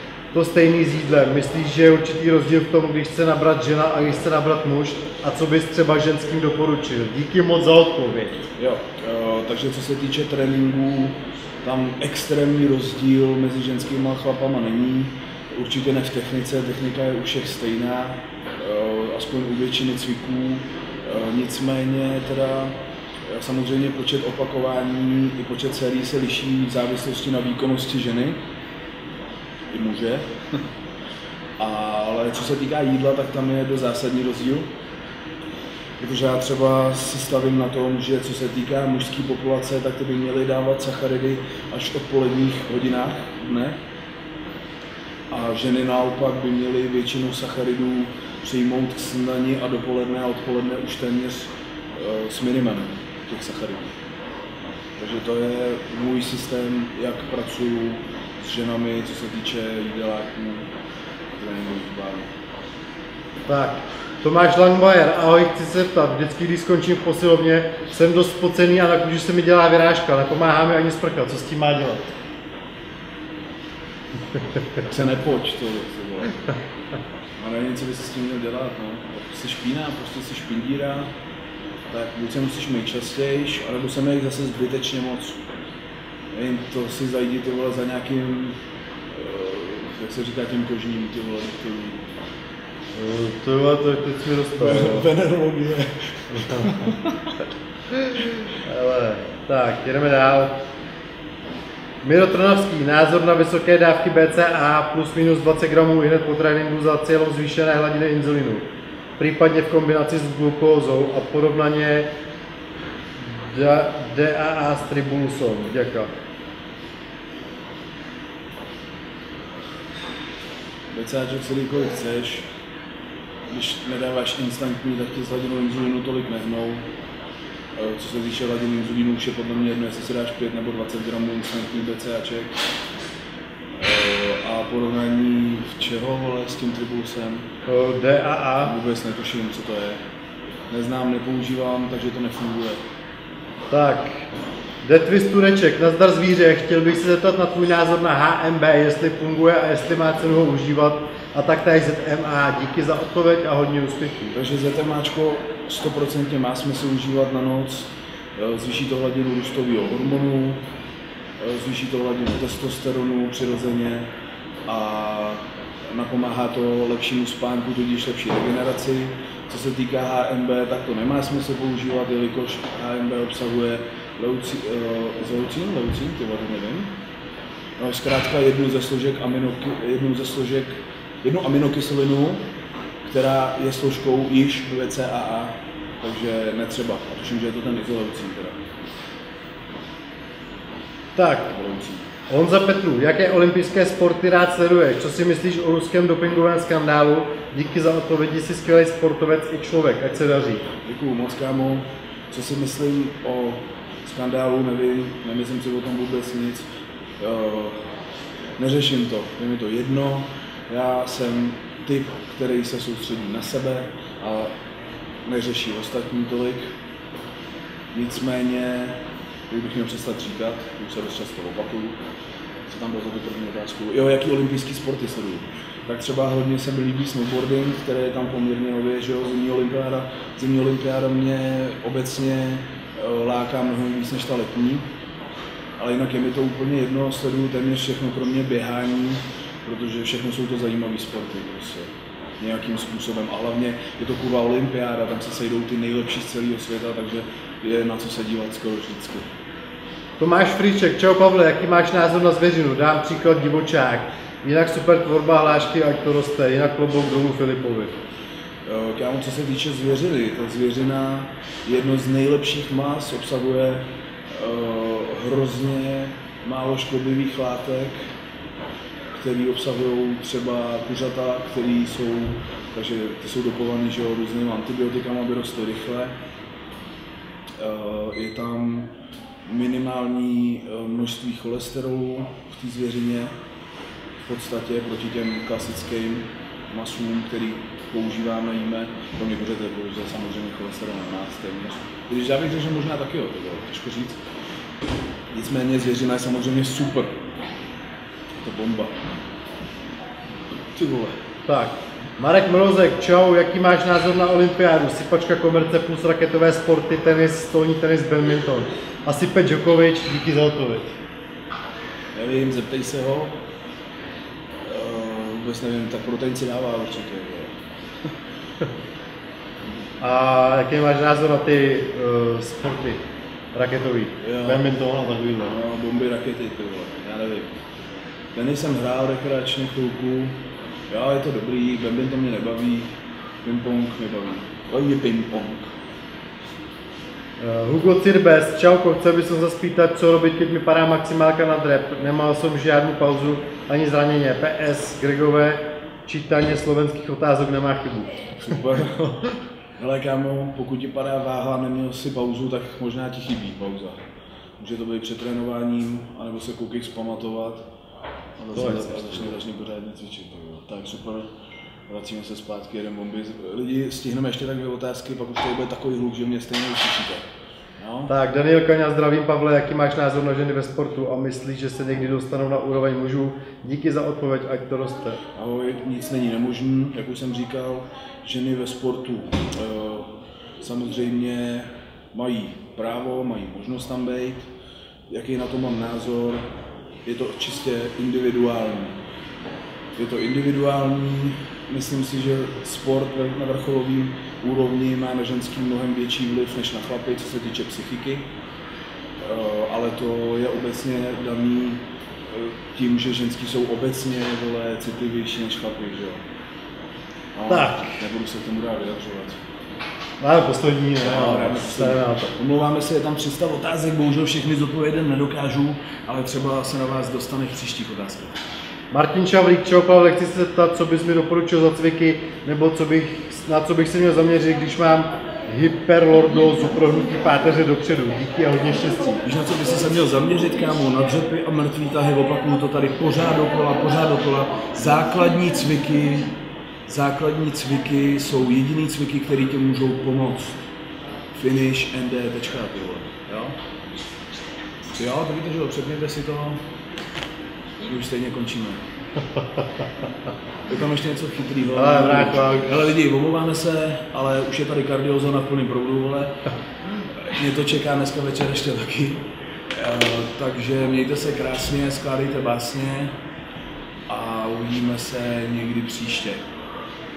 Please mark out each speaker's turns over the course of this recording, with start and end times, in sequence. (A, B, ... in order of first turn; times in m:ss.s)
0:00.3-0:08.4 A
0:08.6-0:28.4 B
0:29.7-0:30.6 B
0:31.6-0:34.7 B
0:36.0-0:43.8 B
0:45.3-0:54.0 B
0:54.9-1:00.7 B
1:01.3-1:02.3 B
1:03.5-1:12.2 A
1:14.8-1:16.4 B
1:17.4-1:21.1 B
1:21.9-1:25.4 B
1:26.3-1:32.1 B
1:32.9-1:35.1 A
1:34.5-1:37.4 B
1:36.3-1:36.9 A
1:38.6-1:40.6 A
1:42.0-1:48.7 A
1:49.2-1:52.1 A
1:53.2-1:56.1 A
2:00.9-2:02.4 B
2:03.5-2:06.9 B
2:07.7-2:12.6 B
2:13.7-2:17.5 B
2:17.6-2:18.7 A
2:18.6-2:20.0 B
2:20.7-2:22.8 B
2:23.7-2:24.3 A
2:24.8-2:34.4 A
2:34.3-2:40.6 B
2:41.4-2:44.1 B
2:44.6-2:57.0 B
2:57.8-3:02.4 B
3:03.0-3:08.7 B
3:11.2-3:11.5 A
3:11.5-3:12.1 B
3:12.3-3:20.7 A
3:20.8-3:26.6 B
3:27.2-3:27.9 B
3:28.6-3:34.5 B
3:35.2-3:36.7 B
3:37.9-3:42.0 B
3:42.6-3:54.8 B
3:55.8-4:09.3 B
4:10.2-4:18.0 A
4:18.6-4:28.1 B
4:29.1-4:36.2 B
4:37.5-4:38.9 B
4:39.4-4:43.3 B
4:44.2-4:54.2 B
4:55.3-4:57.2 B
4:58.4-4:59.0 B
5:00.7-5:01.2 B
5:01.4-5:11.0 A
5:12.1-5:13.4 B
5:14.5-5:18.1 B
5:20.0-5:25.6 A
5:24.2-5:24.7 B
5:25.4-5:27.8 B
5:28.3-5:35.7 B
5:37.4-5:48.9 A
5:48.4-5:49.2 B
5:49.8-5:54.0 B
5:54.6-5:57.7 B
5:58.4-6:01.3 B
5:58.5-5:59.0 A
6:01.9-6:08.1 B
6:08.1-6:15.2 A
6:15.3-6:24.5 B
6:25.1-6:26.5 B
6:27.0-6:29.0 B
6:30.0-6:38.3 B
6:39.2-6:46.2 B
6:47.3-6:49.4 B
6:47.5-6:47.9 A
6:50.2-6:52.3 A
6:51.0-6:58.4 B
6:58.9-7:09.2 A
7:09.2-7:20.6 B
7:21.3-7:23.6 B
7:24.9-7:26.6 B
7:27.8-7:28.8 B
7:29.4-7:29.6 A
7:30.7-7:36.5 B
7:31.7-7:32.7 A
7:37.1-7:43.2 B
7:44.1-7:46.4 B